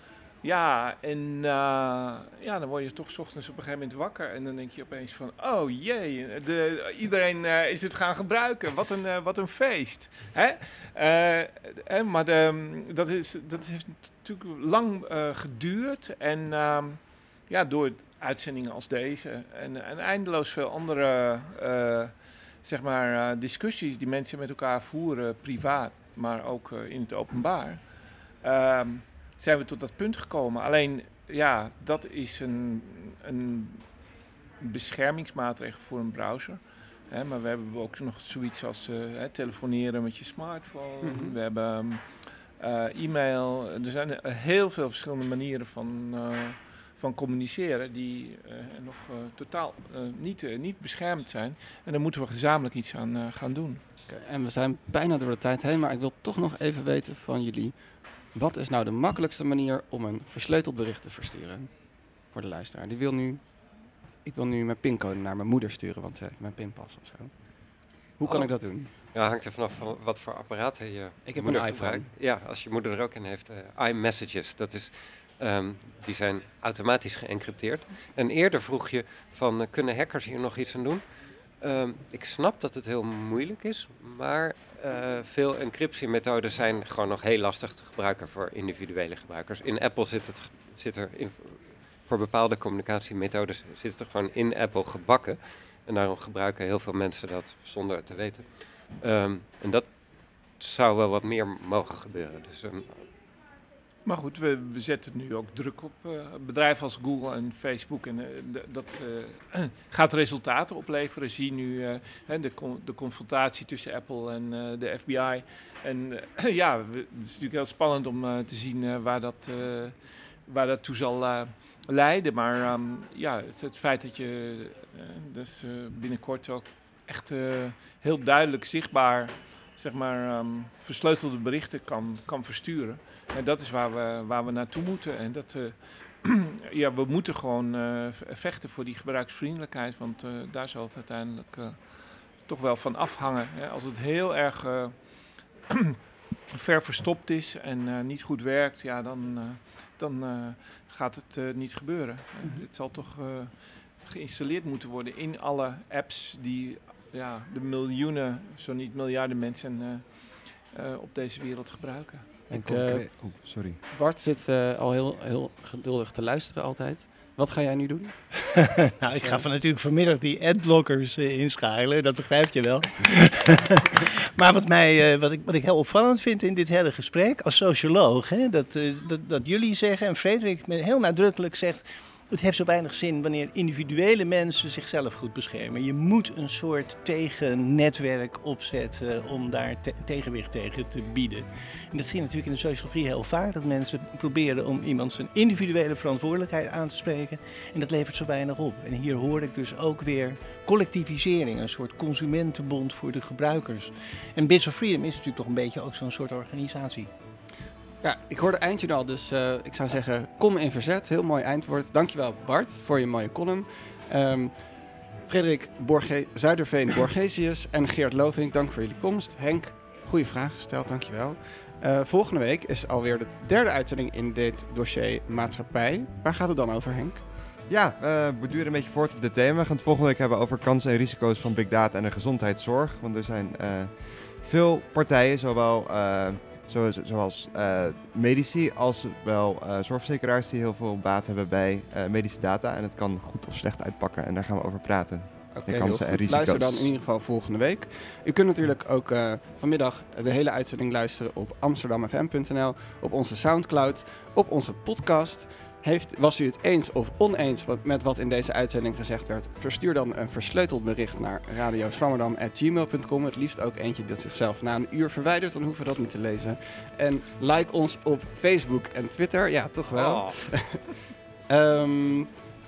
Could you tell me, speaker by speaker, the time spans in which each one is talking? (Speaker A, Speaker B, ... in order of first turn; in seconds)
Speaker A: 0.4-33.9, 34.6-53.8, 104.0-141.8, 142.4-144.9, 145.7-146.0, 146.5-162.4
Speaker B: 41.0-41.4, 54.1-57.8, 58.3-61.7, 62.3-63.4, 64.2-67.3, 68.2-68.9, 71.3-72.1, 162.5-163.3, 163.9-168.1, 169.1-169.4, 208.0-214.5, 215.2-227.2, 245.5-271.0, 271.5-272.3
Speaker C: 68.2-68.5, 69.1-81.0, 81.6-99.9, 100.6-103.0, 269.9-270.4
Speaker D: 162.5-163.8, 227.7-246.9
Speaker E: 168.5-207.1